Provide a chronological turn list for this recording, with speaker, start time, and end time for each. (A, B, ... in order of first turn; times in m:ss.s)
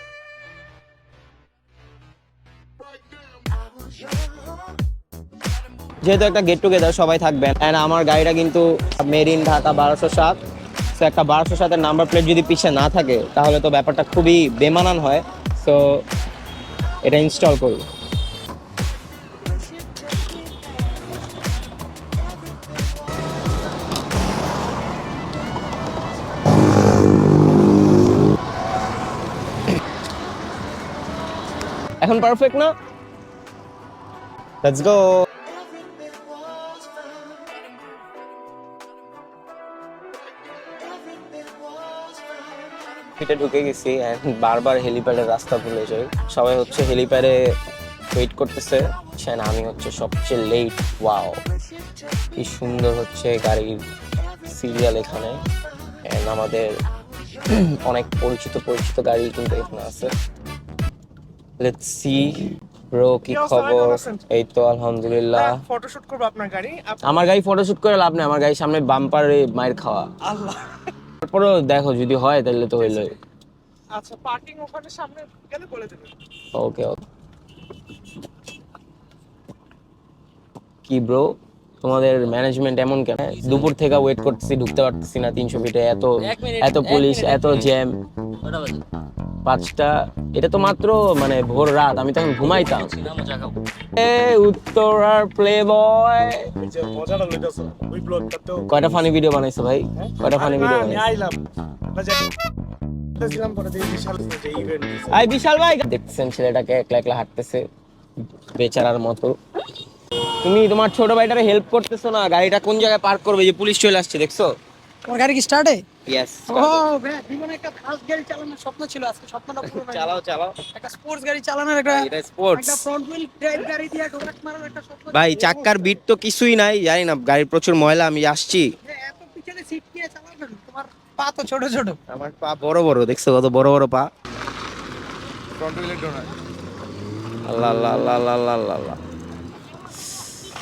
0:06.0-0:10.4 A
0:11.0-0:16.0 A
0:17.0-0:17.8 A
0:32.0-0:32.7 A
0:34.6-0:35.3 A
0:43.2-0:47.4 A
0:48.1-0:51.4 A
0:52.4-0:53.8 A
0:54.5-0:55.4 A
0:56.0-0:56.8 A
0:57.5-1:00.1 A
1:01.6-1:02.3 A
1:02.9-1:05.6 A
1:03.3-1:04.2 B
1:05.3-1:07.3 B
1:07.0-1:10.1 A
1:10.3-1:10.6 B
1:11.2-1:13.2 A
1:13.9-1:16.1 B
1:16.5-1:17.0 A
1:20.8-1:28.0 A
1:29.4-1:33.1 A
1:34.0-1:36.5 A
1:36.6-1:38.7 B
1:38.7-1:41.1 A
1:40.0-1:41.4 B
1:41.9-1:42.3 B
1:43.2-1:45.3 B
1:45.1-1:47.6 A
1:48.5-1:49.4 A
1:50.4-1:54.5 A
1:55.1-1:55.8 C
1:56.1-1:56.8 A
1:56.5-2:00.2 C
1:59.6-2:00.6 A
2:00.7-2:05.8 C
2:01.9-2:02.8 A
2:05.1-2:08.7 A
2:08.8-2:12.0 C
2:12.1-2:14.1 A
2:17.5-2:19.0 A